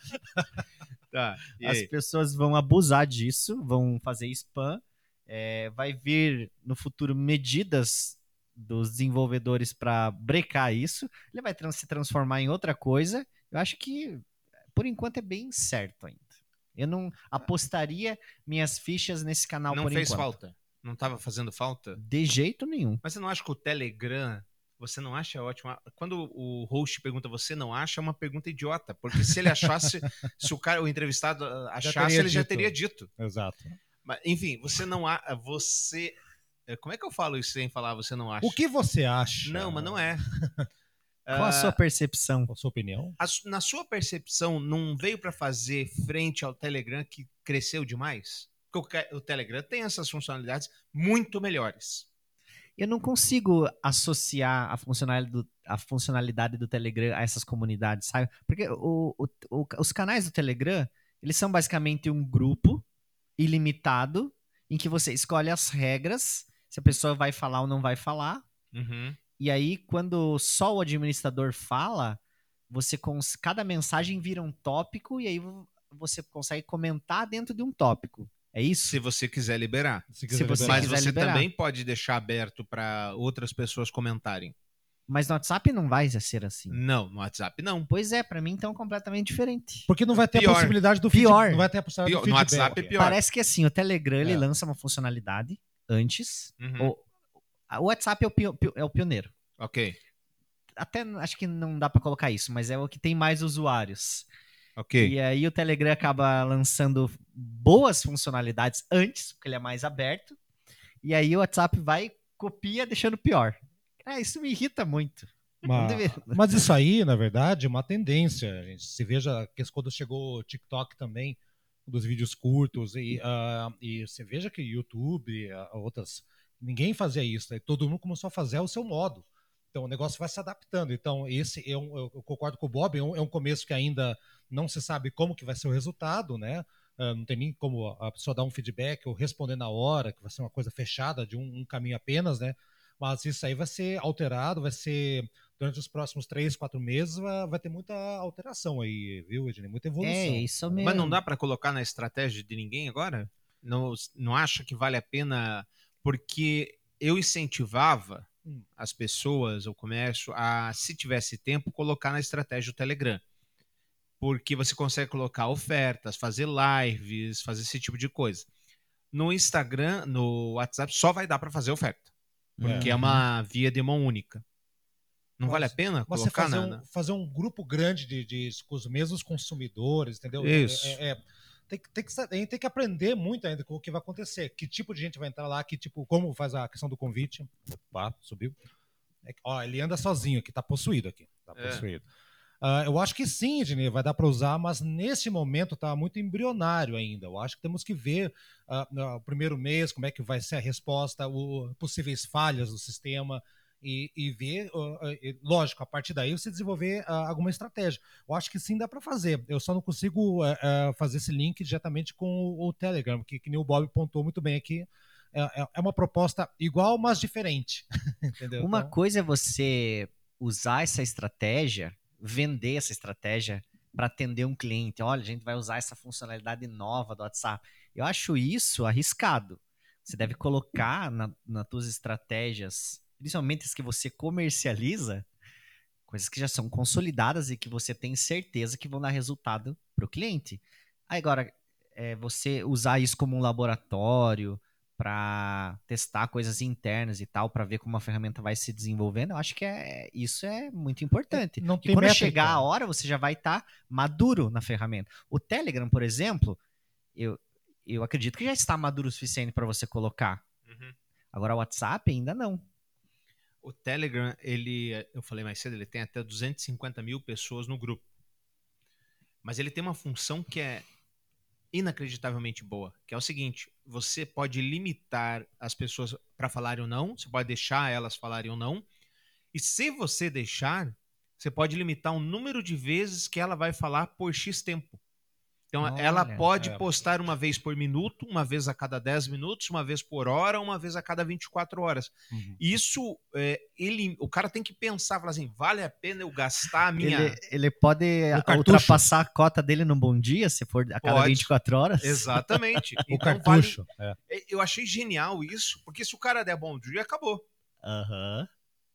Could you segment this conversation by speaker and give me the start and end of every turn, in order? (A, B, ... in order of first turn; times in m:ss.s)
0:01.1-0:01.9 A
0:01.6-0:14.2 B
0:14.8-0:20.4 B
0:19.7-0:22.0 A
0:22.0-0:23.0 B
0:23.0-0:33.1 A
0:31.8-0:33.8 C
0:34.0-0:36.2 A
0:36.7-0:38.6 A
0:38.4-0:40.7 C
0:39.4-0:40.2 A
0:41.2-0:41.8 A
0:41.3-0:42.5 B
0:42.5-0:43.2 C
0:43.2-0:52.1 A
0:52.8-1:02.8 B
1:03.4-1:08.4 B
1:08.7-1:09.2 A
1:09.4-1:19.0 B
1:18.9-1:20.1 A
1:20.1-1:20.9 C
1:20.3-1:21.5 B
1:20.6-1:24.5 A
1:25.1-1:26.8 B
1:26.7-1:27.9 A
1:27.9-1:29.9 B
1:29.9-1:33.0 C
1:30.2-1:30.8 A
1:31.1-1:31.7 B
1:32.0-1:33.2 A
1:32.9-1:37.0 B
1:36.6-1:36.9 A
1:37.7-1:39.3 B
1:39.6-1:40.0 A
1:40.8-1:44.2 B
1:44.8-1:45.1 A
1:45.0-1:50.4 B
1:51.0-1:56.5 B
1:55.6-2:31.1 C
2:30.0-2:31.2 B
2:30.8-2:43.2 A
2:44.2-2:48.5 A
2:49.1-2:52.1 A
2:52.6-2:53.2 B
2:52.6-2:52.9 C
2:52.7-2:54.4 A
2:55.4-2:56.8 A
2:55.4-3:08.6 C
3:00.4-3:01.0 A
3:09.2-3:12.1 C
3:11.6-3:11.8 A
3:12.6-3:38.9 C
3:38.6-3:55.3 B
3:56.1-4:16.6 B
4:11.3-4:12.7 C
4:17.2-4:20.4 B
4:20.7-4:20.9 A
4:21.3-4:22.6 B
4:23.6-4:28.1 A
4:29.4-4:30.9 A
4:31.7-4:38.8 A
4:39.5-4:45.0 A
4:45.7-4:57.4 A
4:45.8-4:46.4 B
4:46.6-4:46.8 C
4:52.3-4:52.6 C
4:57.0-5:03.3 B
4:58.3-4:59.1 C
5:01.0-5:07.4 A
5:03.1-5:04.2 C
5:07.8-5:08.5 B